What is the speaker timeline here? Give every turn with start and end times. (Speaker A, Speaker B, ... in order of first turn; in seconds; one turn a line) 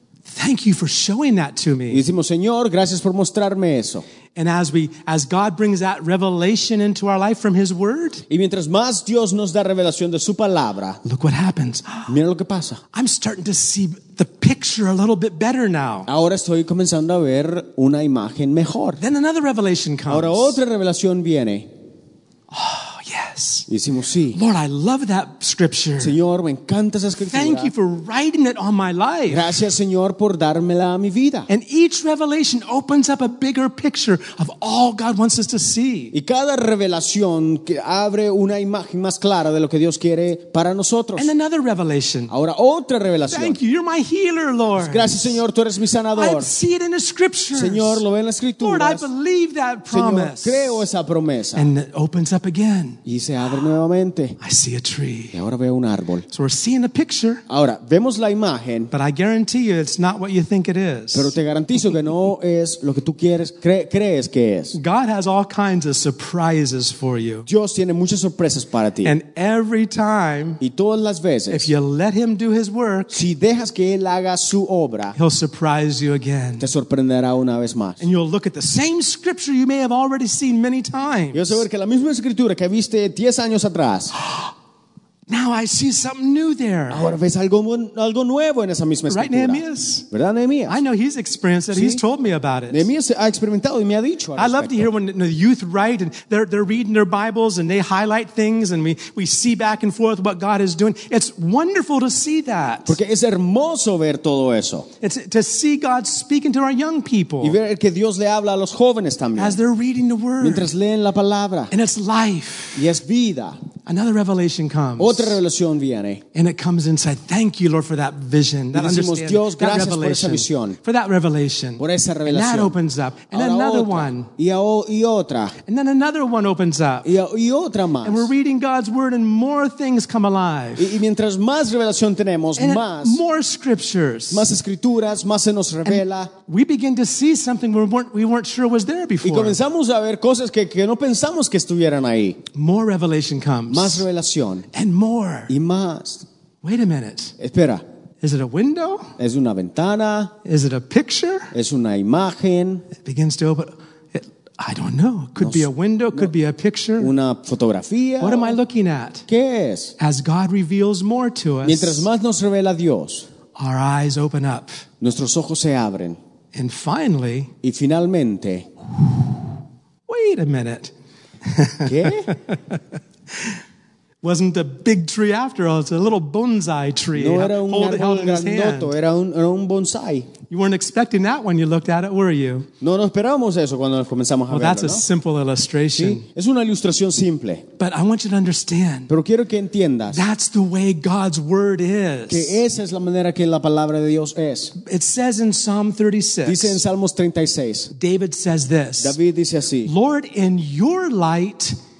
Speaker A: 0.3-2.0
Speaker B: 1.9-4.0
Speaker A: 4.3-8.2
Speaker B: 8.3-11.0
Speaker A: 11.0-12.2
Speaker B: 12.1-12.8
Speaker A: 12.9-16.1
Speaker B: 16.1-19.0
Speaker A: 19.0-20.6
Speaker B: 20.1-21.7
Speaker A: 22.5-23.7
Speaker B: 23.7-24.4
Speaker A: 24.3-26.1
Speaker B: 26.0-27.7
Speaker A: 27.2-29.5
Speaker B: 29.3-31.5
Speaker A: 31.5-36.1
Speaker B: 36.1-41.3
Speaker A: 41.1-42.3
Speaker B: 42.3-43.6
Speaker A: 43.3-45.4
Speaker B: 44.8-46.5
Speaker A: 46.1-48.0
Speaker B: 47.5-49.1
Speaker A: 48.6-50.9
Speaker B: 49.9-51.7
Speaker A: 51.5-53.0
Speaker B: 53.0-54.4
Speaker A: 54.4-55.4
Speaker B: 55.3-56.2
Speaker A: 56.3-57.4
Speaker B: 57.5-58.9
Speaker A: 58.9-61.3
Speaker B: 61.1-64.8
Speaker A: 64.7-67.5
Speaker B: 67.5-69.1
Speaker A: 69.0-70.6
Speaker B: 70.6-71.7
Speaker A: 71.5-73.2
Speaker B: 73.1-75.2
Speaker A: 75.1-76.7
Speaker B: 76.6-78.0
Speaker A: 78.0-81.6
Speaker B: 81.3-84.1
Speaker A: 84.2-84.5
Speaker A: 85.3-87.1
Speaker B: 86.9-90.8
Speaker A: 89.1-90.0
Speaker A: 90.7-92.9
Speaker B: 91.7-92.0
Speaker B: 92.7-94.9
Speaker A: 94.3-103.0
Speaker B: 102.8-104.9
Speaker A: 105.0-107.6
Speaker B: 107.4-109.6
Speaker A: 109.4-110.7
Speaker B: 110.4-111.7
Speaker A: 111.7-112.9
Speaker B: 112.7-113.6
Speaker A: 113.8-115.4
Speaker B: 115.0-116.2
Speaker A: 116.3-124.3
Speaker B: 118.7-120.8
Speaker B: 121.8-122.7
Speaker B: 123.3-125.6
Speaker A: 125.7-127.1
Speaker B: 127.0-128.3
Speaker A: 128.0-131.0
Speaker B: 130.8-133.2
Speaker A: 132.6-134.5
Speaker B: 134.3-136.3
Speaker A: 135.8-139.6
Speaker B: 139.2-142.4
Speaker A: 142.5-144.1
Speaker B: 143.7-144.7
Speaker A: 144.7-145.5
Speaker B: 145.5-146.2
Speaker A: 146.6-147.3
Speaker B: 147.4-147.8
Speaker A: 148.2-149.1
Speaker B: 149.2-150.3
Speaker A: 150.4-151.5
Speaker B: 151.5-152.9
Speaker A: 152.9-157.1
Speaker B: 155.4-156.3
Speaker B: 157.0-158.6
Speaker A: 158.2-159.3
Speaker B: 159.3-159.9
Speaker A: 160.0-162.1
Speaker B: 161.6-163.3
Speaker A: 163.6-164.8
Speaker B: 165.0-166.2
Speaker A: 166.5-167.5
Speaker B: 167.6-168.7
Speaker A: 170.1-170.9
Speaker A: 171.4-172.8
Speaker B: 171.8-172.3
Speaker A: 174.2-178.9
Speaker B: 177.2-180.3
Speaker A: 180.5-182.7
Speaker B: 182.8-185.0
Speaker A: 184.5-186.2
Speaker B: 185.9-187.6
Speaker A: 187.8-189.1
Speaker B: 189.1-190.2
Speaker A: 190.1-192.6
Speaker B: 192.3-194.7
Speaker A: 194.8-196.8
Speaker B: 196.4-197.9
Speaker A: 197.9-199.2
Speaker B: 199.0-199.9
Speaker A: 199.8-201.8